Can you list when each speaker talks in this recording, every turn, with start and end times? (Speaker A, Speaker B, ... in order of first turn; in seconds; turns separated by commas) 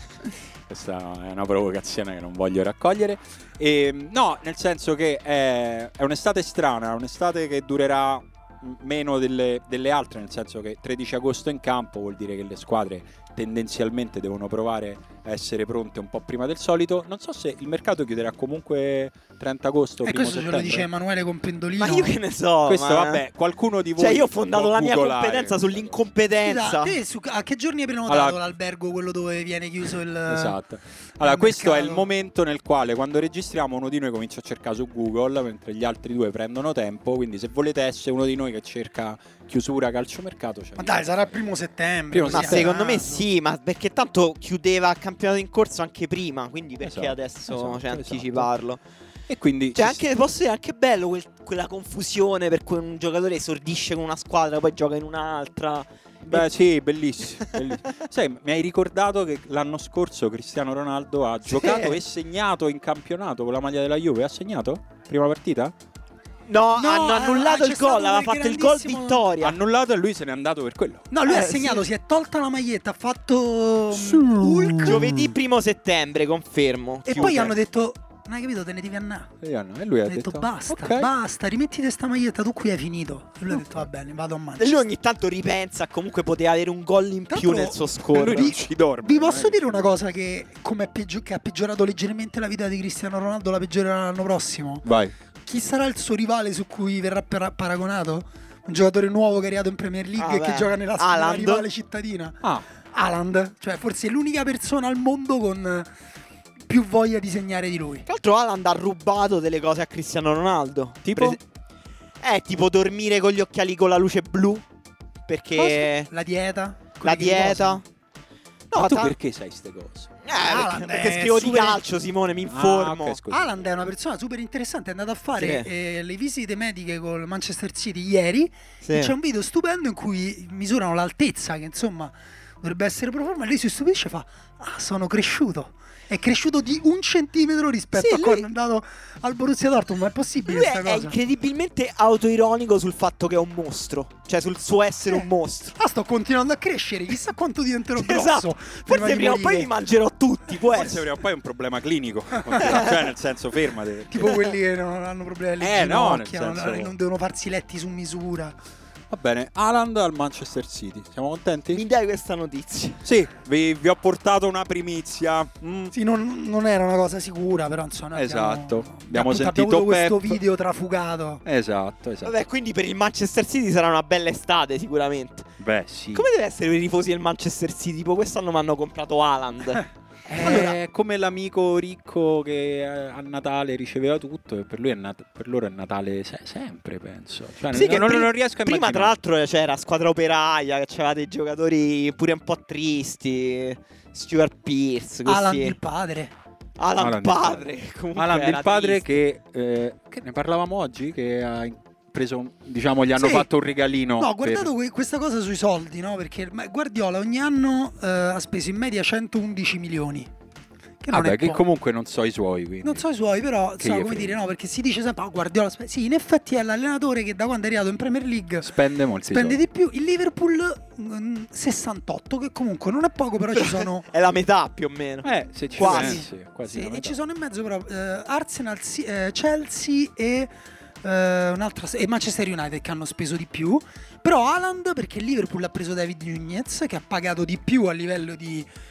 Speaker A: 0.7-20.9, Speaker B: 20.0-22.1, Speaker C: 21.8-23.2, Speaker A: 22.6-26.0, Speaker C: 24.0-27.0, Speaker B: 26.4-30.6, Speaker A: 28.1-28.4, Speaker A: 30.3-41.4, Speaker B: 31.2-32.1, Speaker B: 40.8-43.2, Speaker A: 42.1-42.7, Speaker C: 42.3-48.8, Speaker A: 46.8-48.5, Speaker A: 49.3-50.0, Speaker C: 49.8-56.5, Speaker A: 56.3-65.7, Speaker C: 61.5-62.0, Speaker C: 66.5-69.6, Speaker B: 66.8-69.3, Speaker A: 69.4-71.1, Speaker B: 71.1-75.3, Speaker C: 71.3-71.8, Speaker A: 73.9-75.1, Speaker C: 74.8-77.5, Speaker B: 77.1-79.3, Speaker A: 79.4-81.1, Speaker B: 80.1-84.8, Speaker C: 84.6-88.5, Speaker B: 87.3-94.9, Speaker A: 88.1-89.9, Speaker A: 94.8-95.1, Speaker B: 95.5-102.4, Speaker C: 100.2-101.7, Speaker B: 102.9-105.9, Speaker B: 106.7-108.1, Speaker C: 108.1-111.4, Speaker A: 111.0-111.4, Speaker C: 112.2-114.6, Speaker C: 115.3-116.1, Speaker B: 115.6-117.8, Speaker C: 117.0-117.8, Speaker C: 118.7-119.1, Speaker A: 118.7-120.1, Speaker C: 120.2-123.2, Speaker B: 120.3-121.8, Speaker A: 122.5-123.6, Speaker B: 123.3-141.1, Speaker C: 125.4-125.7, Speaker C: 128.8-129.1, Speaker C: 137.9-138.5, Speaker C: 140.4-145.8, Speaker B: 145.8-149.7, Speaker C: 148.0-151.0, Speaker A: 150.6-154.4, Speaker B: 152.4-152.8, Speaker B: 154.1-158.6, Speaker A: 155.6-156.9, Speaker A: 159.1-161.8, Speaker C: 161.7-163.0, Speaker A: 163.0-165.9, Speaker B: 165.9-171.4, Speaker A: 168.1-170.4, Speaker A: 171.4-172.3, Speaker C: 172.2-175.5, Speaker A: 175.6-176.3, Speaker C: 176.1-179.8, Speaker A: 180.3-189.2, Speaker B: 180.4-180.8, Speaker C: 187.7-195.8, Speaker B: 195.3-196.3, Speaker C: 196.8-199.1, Speaker A: 197.0-204.7, Speaker B: 203.2-203.5, Speaker B: 204.2-210.3, Speaker B: 211.0-211.6, Speaker A: 211.1-213.0, Speaker B: 212.8-218.8, Speaker A: 213.8-214.4, Speaker A: 218.6-219.6, Speaker B: 219.3-224.1, Speaker C: 223.5-226.2, Speaker A: 225.2-227.2, Speaker B: 225.8-230.5, Speaker B: 231.0-238.7